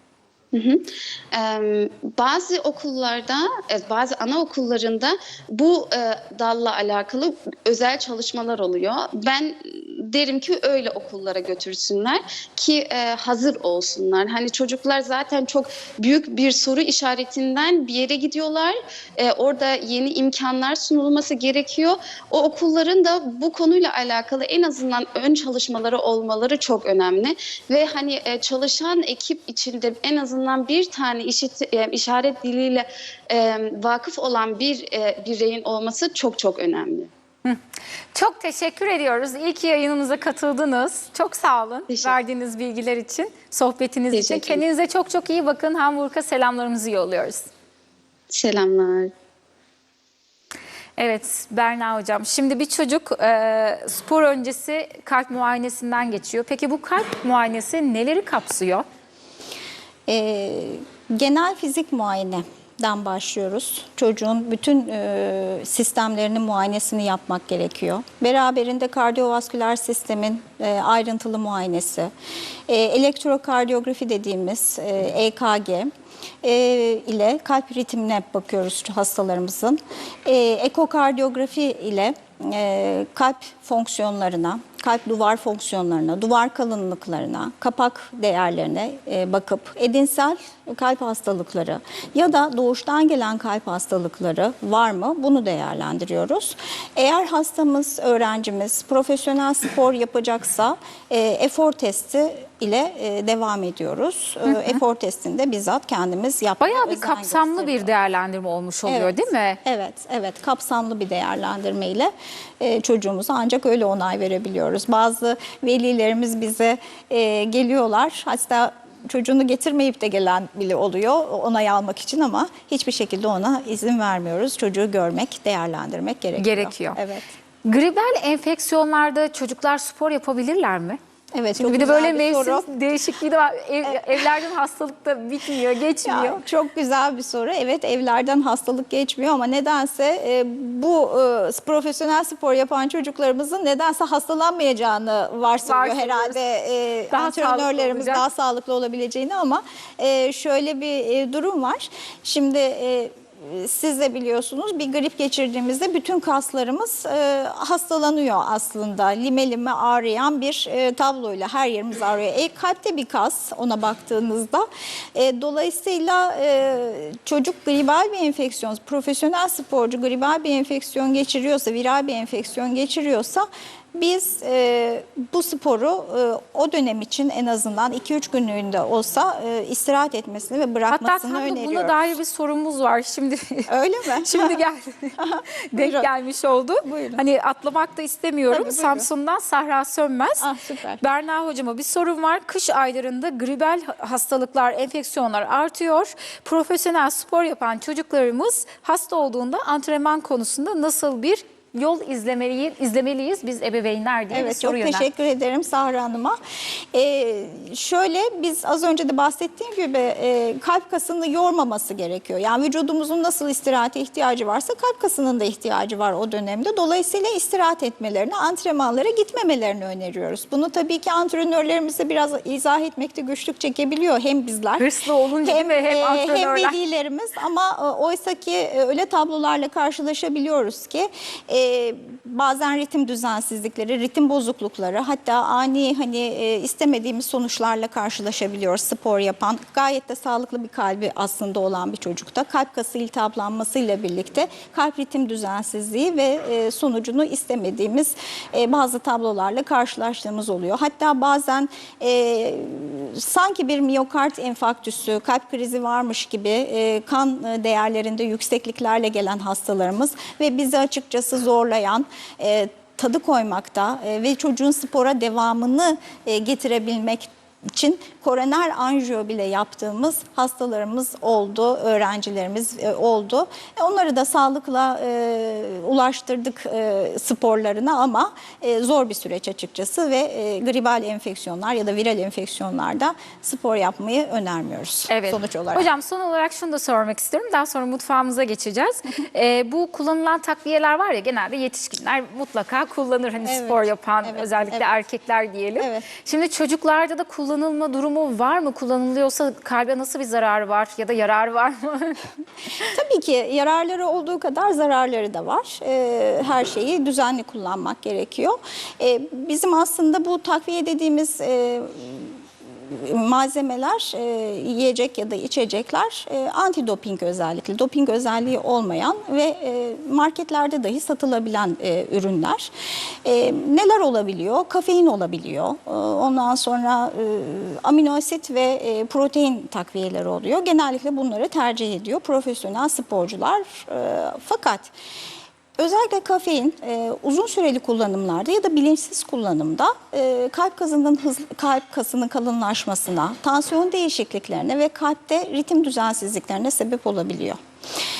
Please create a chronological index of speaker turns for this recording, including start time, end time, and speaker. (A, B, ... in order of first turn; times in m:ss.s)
0:00.5-0:37.1 A
0:38.1-0:47.5 B
0:41.9-0:42.2 A
0:44.1-0:44.6 A
0:48.3-0:49.1 A
0:51.0-0:58.8 B
1:00.1-1:12.1 C
1:12.7-1:15.9 C
1:16.4-1:47.9 C
1:44.5-1:44.8 B
1:46.6-1:49.6 B
1:48.9-2:07.3 C
2:06.4-2:07.0 B
2:07.6-2:11.0 B
2:11.3-2:12.7 C
2:11.6-2:16.4 B
2:13.9-2:14.2 C
2:16.1-3:02.0 C
2:25.6-2:26.4 B
2:27.1-2:28.2 B
3:00.9-3:03.7 B
3:03.7-3:04.6 C
3:04.2-3:10.5 B
3:05.2-3:06.1 C
3:06.8-3:07.2 C
3:08.5-3:09.1 C
3:10.4-3:11.0 C
3:11.0-3:25.1 B
3:24.3-3:26.4 C
3:26.9-3:44.9 C
3:44.8-3:46.8 B
3:45.4-4:45.9 C
4:45.1-5:02.2 B
4:53.4-4:54.9 C
4:55.8-4:56.1 C
5:02.8-5:22.7 C
5:23.2-5:34.9 C
5:35.8-5:47.6 C